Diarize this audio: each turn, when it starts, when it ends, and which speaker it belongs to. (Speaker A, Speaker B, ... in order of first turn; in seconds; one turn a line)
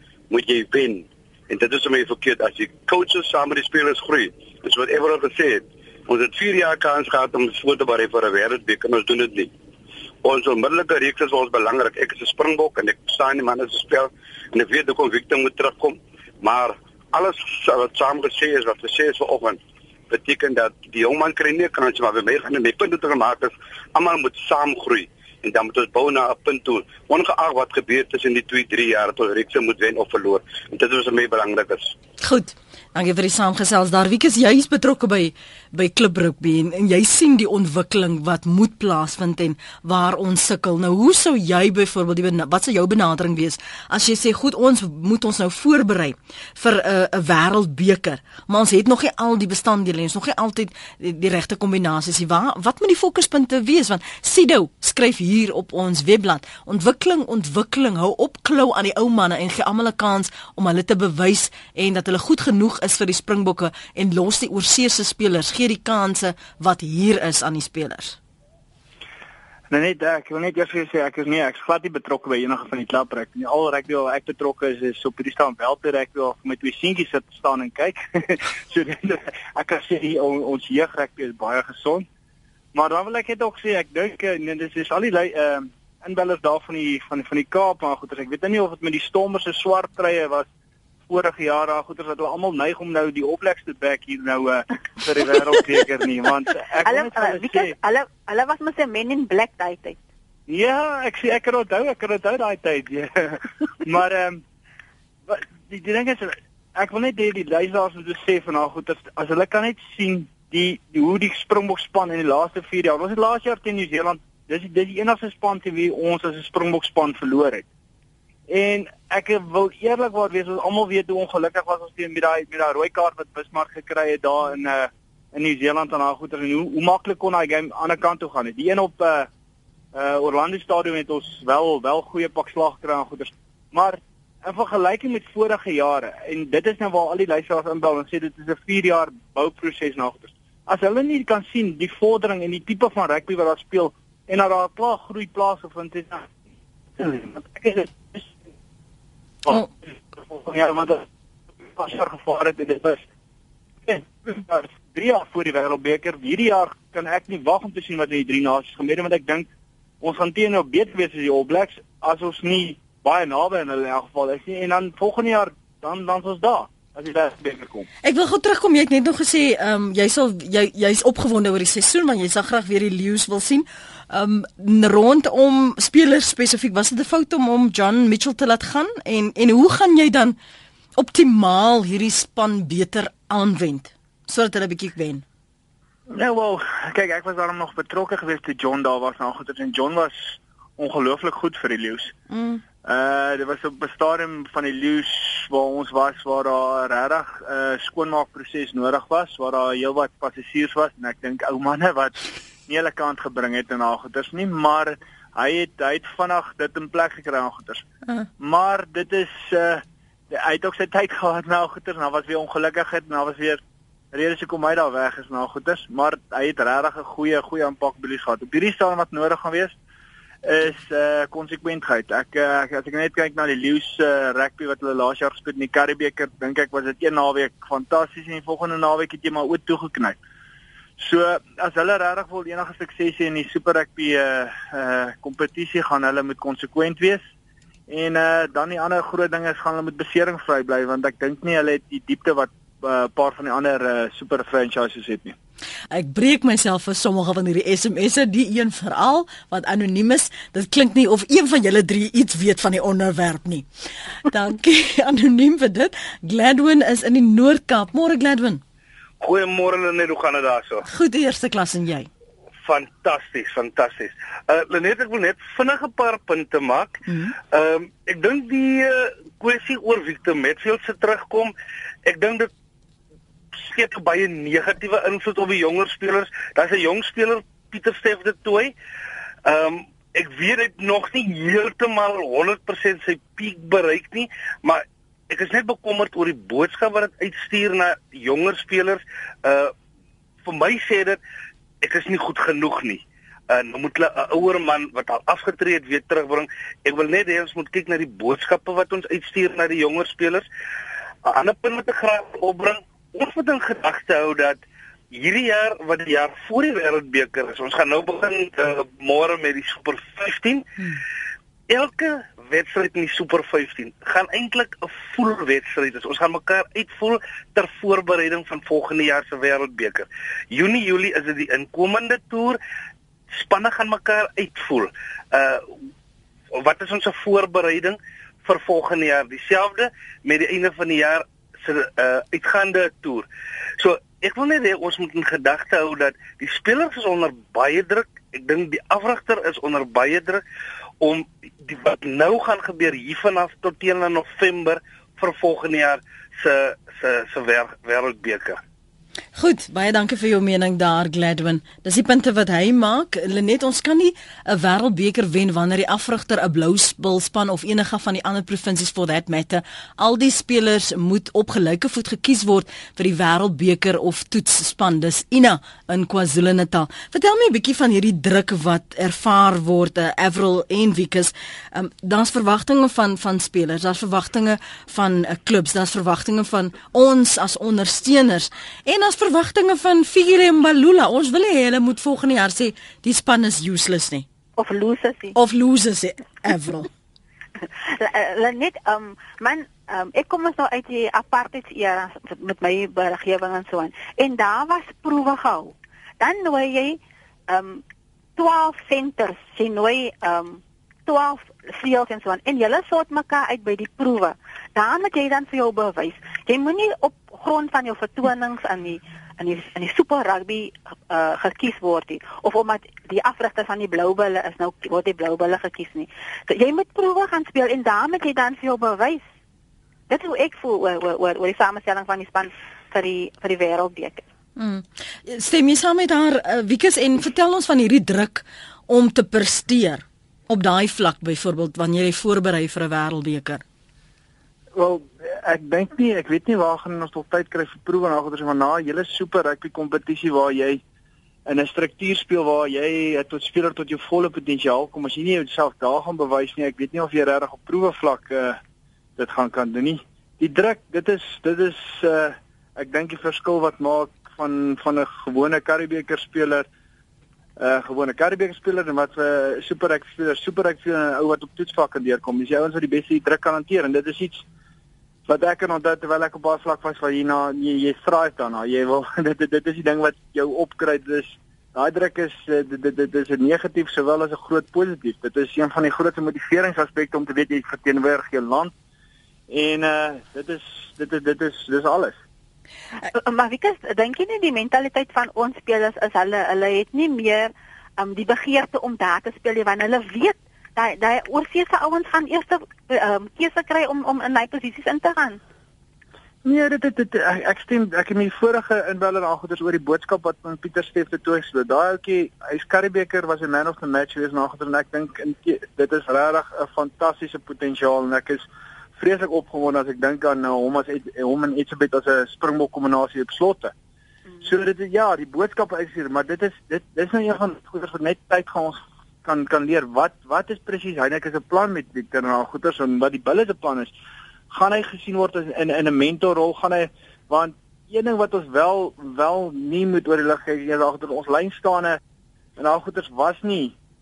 Speaker A: 0.3-9.5
Speaker A: 10.2-19.6
Speaker A: 20.1-31.9
Speaker B: 32.2-68.2
Speaker C: 69.7-82.0
Speaker C: 82.7-90.5
Speaker C: 91.1-97.7
Speaker D: 96.8-100.0
Speaker C: 100.5-104.4
Speaker C: 105.3-117.7
Speaker C: 118.5-129.3
Speaker C: 129.9-146.3
Speaker C: 147.0-148.3
Speaker C: 149.4-151.0
Speaker C: 151.7-153.0
Speaker C: 153.8-159.5
Speaker C: 160.0-167.9
Speaker B: 168.0-180.3
Speaker B: 181.0-185.2
Speaker C: 186.1-192.1
Speaker B: 192.3-192.6
Speaker C: 192.8-207.8
Speaker C: 208.4-213.6
Speaker C: 214.1-219.7
Speaker C: 220.4-230.2
Speaker C: 231.0-237.2
Speaker C: 237.9-245.3
Speaker B: 245.9-253.7
Speaker B: 254.3-258.6
Speaker E: 259.2-260.8
Speaker B: 260.8-262.1
Speaker E: 262.6-271.5
Speaker B: 267.1-267.3
Speaker E: 272.1-272.5
Speaker E: 273.6-278.7
Speaker E: 279.4-289.7
Speaker E: 290.4-291.2
Speaker E: 291.8-300.5
Speaker E: 301.2-304.6
Speaker E: 305.1-310.6
Speaker E: 311.7-322.6
Speaker E: 323.3-325.6
Speaker E: 326.6-333.3
Speaker E: 333.8-340.4
Speaker E: 341.0-348.6
Speaker B: 349.3-384.2
Speaker D: 384.6-385.4
Speaker B: 385.3-386.9
Speaker D: 387.8-397.0
Speaker D: 397.5-397.8
Speaker D: 398.4-419.2
Speaker D: 420.1-424.2
Speaker B: 424.6-433.6
Speaker C: 434.7-440.8
Speaker C: 441.5-448.6
Speaker C: 449.2-456.6
Speaker C: 457.6-464.4
Speaker C: 465.2-478.7
Speaker C: 479.5-482.2
Speaker D: 483.1-495.4
Speaker C: 496.4-513.7
Speaker C: 514.4-523.9
Speaker C: 524.5-532.0
Speaker C: 532.6-533.7